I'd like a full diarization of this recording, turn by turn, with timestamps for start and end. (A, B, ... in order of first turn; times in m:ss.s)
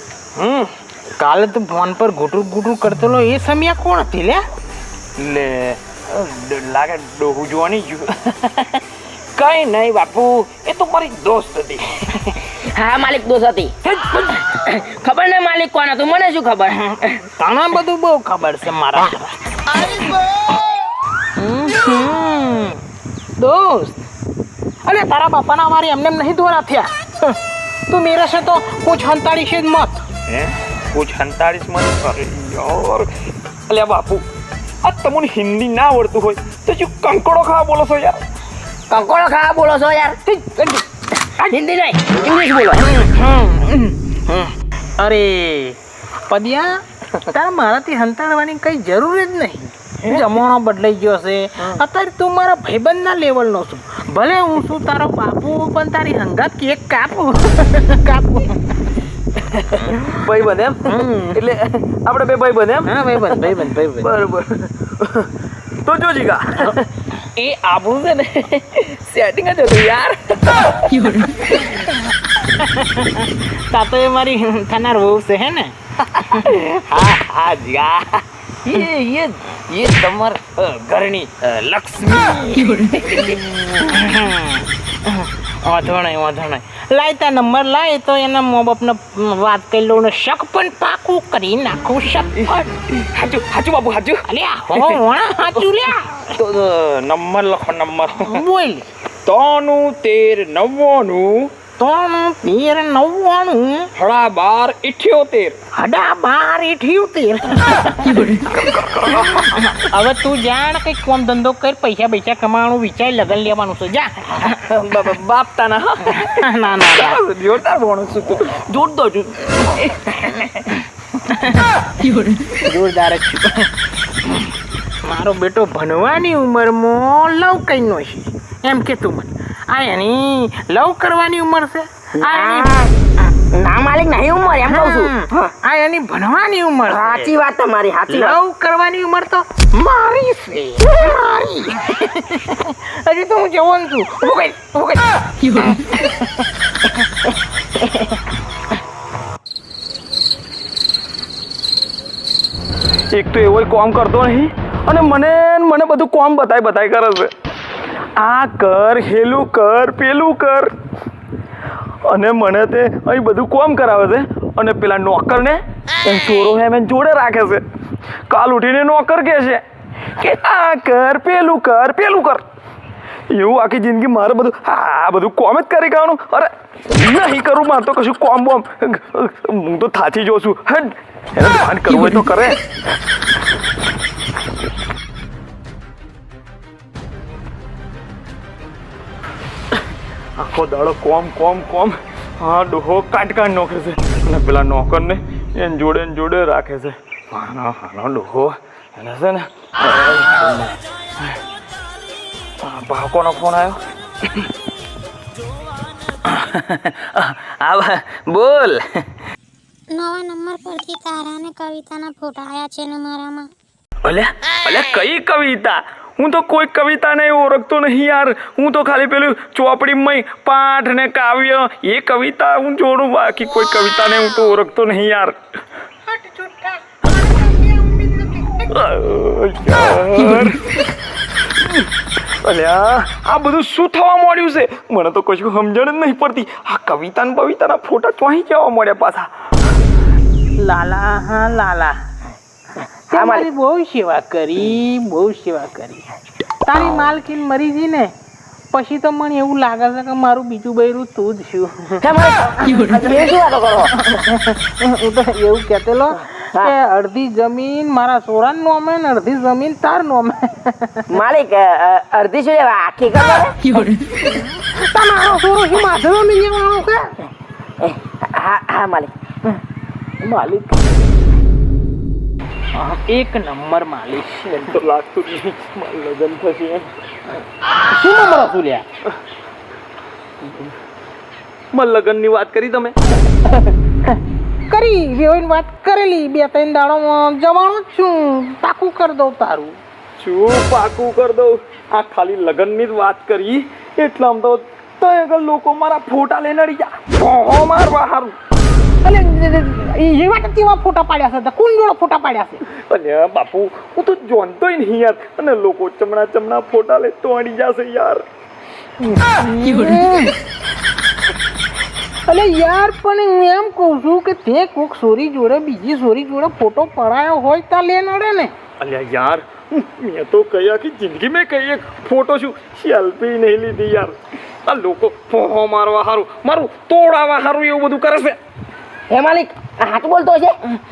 0:00.4-0:00.7 A
0:01.2-0:04.4 B
0:05.2-0:08.8 A
0:09.4-0:12.0 A
0:12.5-0:17.0 C
0:17.1-0:20.1 B
0:21.4-0:22.8 B
0:23.4-0:24.1 B
0:24.8-0:27.4 B
0:27.9-0:30.0 B
0:30.3-0:33.1 A
0:33.7-0:34.2 A
0:34.8-0:38.2 A
0:38.9-0:40.2 C
0:40.3-0:40.8 B
0:41.5-0:42.9 C
0:42.8-0:58.6 B
0:59.8-1:00.0 B
1:00.0-1:05.3 A
1:00.9-1:01.4 B
1:02.8-1:04.1 B
1:05.8-1:06.8 A
1:07.4-1:11.0 C
1:08.9-1:10.9 A
1:12.4-1:15.7 B
1:16.4-1:18.2 C
1:18.7-1:19.0 A
1:18.8-1:23.4 C
1:20.4-1:21.4 A
1:23.7-1:32.4 B
1:32.4-1:34.2 A
1:34.2-1:36.3 B
1:34.8-1:35.8 A
1:36.3-1:38.4 A
1:38.2-1:38.8 B
1:39.2-1:41.5 A
1:41.8-1:43.9 B
1:44.0-1:45.6 A
1:45.7-1:48.4 B
1:48.4-1:49.5 A
1:49.5-1:54.4 B
1:54.4-2:00.6 A
1:56.3-1:57.2 B
2:01.3-2:03.7 B
2:05.0-2:12.9 B
2:12.2-2:12.9 C
2:13.5-2:15.2 C
2:14.6-2:17.3 B
2:16.9-2:18.4 C
2:18.1-2:26.3 B
2:33.1-2:37.3 A
2:38.2-2:40.7 A
2:42.1-2:47.6 A
2:48.3-2:49.6 A
2:50.2-2:52.4 A
2:53.3-3:02.6 A
3:10.4-3:20.8 A
3:22.6-3:23.8 A
3:26.2-3:28.8 A
3:29.9-3:33.5 D
3:34.0-3:45.4 A
3:46.1-3:48.7 B
3:48.7-3:50.6 A
3:51.5-3:51.9 A
3:52.4-3:59.3 A
4:00.6-4:02.0 B
4:03.1-4:06.0 B
4:03.1-4:03.5 C
4:06.6-4:08.1 B
4:08.7-4:12.0 B
4:12.0-4:14.0 C
4:14.0-4:21.2 B
4:21.1-4:23.8 C
4:24.2-4:27.1 B
4:27.8-4:29.1 C
4:30.2-4:30.8 B
4:32.7-4:34.7 B
4:34.5-4:36.9 A
4:37.9-4:38.8 B
4:41.7-4:43.0 A
4:44.7-4:49.8 B
4:50.2-4:58.3 A
4:59.0-5:02.6 B
5:02.7-5:08.2 A
5:09.4-5:10.3 B
5:12.2-5:18.5 B
5:18.8-5:24.1 A
5:24.6-5:28.4 A
5:29.1-5:30.6 C